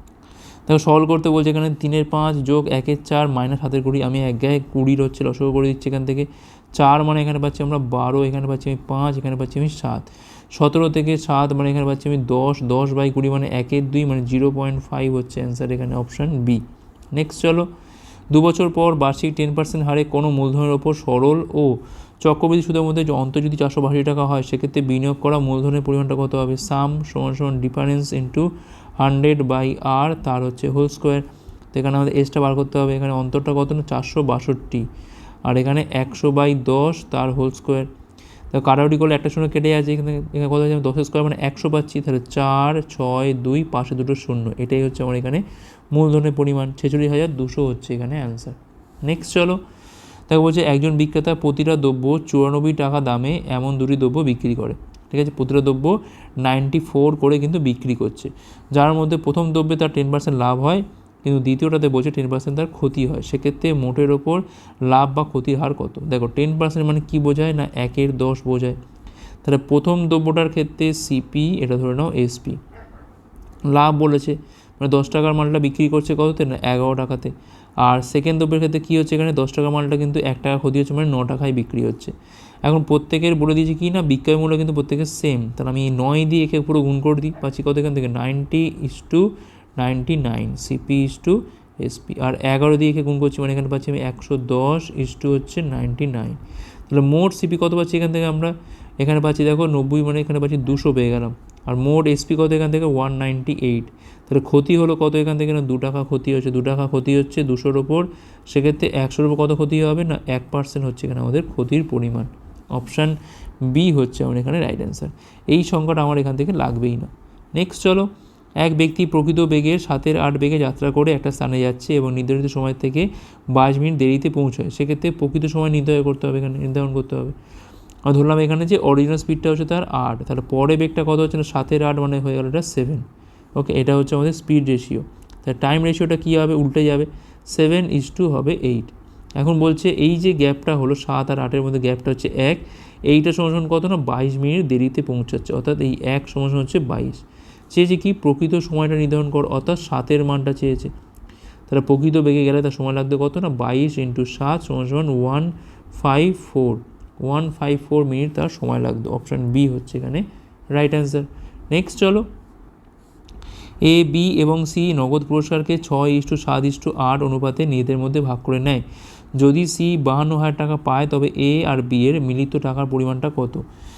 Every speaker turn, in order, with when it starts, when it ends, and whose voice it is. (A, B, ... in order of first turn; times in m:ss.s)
0:00.7-0:16.6 A
0:17.1-0:17.7 A
0:18.3-0:34.8 A
0:35.5-0:37.9 A
0:38.5-0:49.6 A
0:50.3-1:08.8 A
1:09.4-1:12.6 A
1:13.7-1:17.3 A
1:17.8-1:22.1 A
1:22.6-2:07.3 A
2:08.0-2:13.0 A
2:13.6-2:30.9 A
2:31.7-2:40.2 A
2:40.7-2:42.3 A
2:43.8-2:48.8 A
2:49.4-2:53.6 A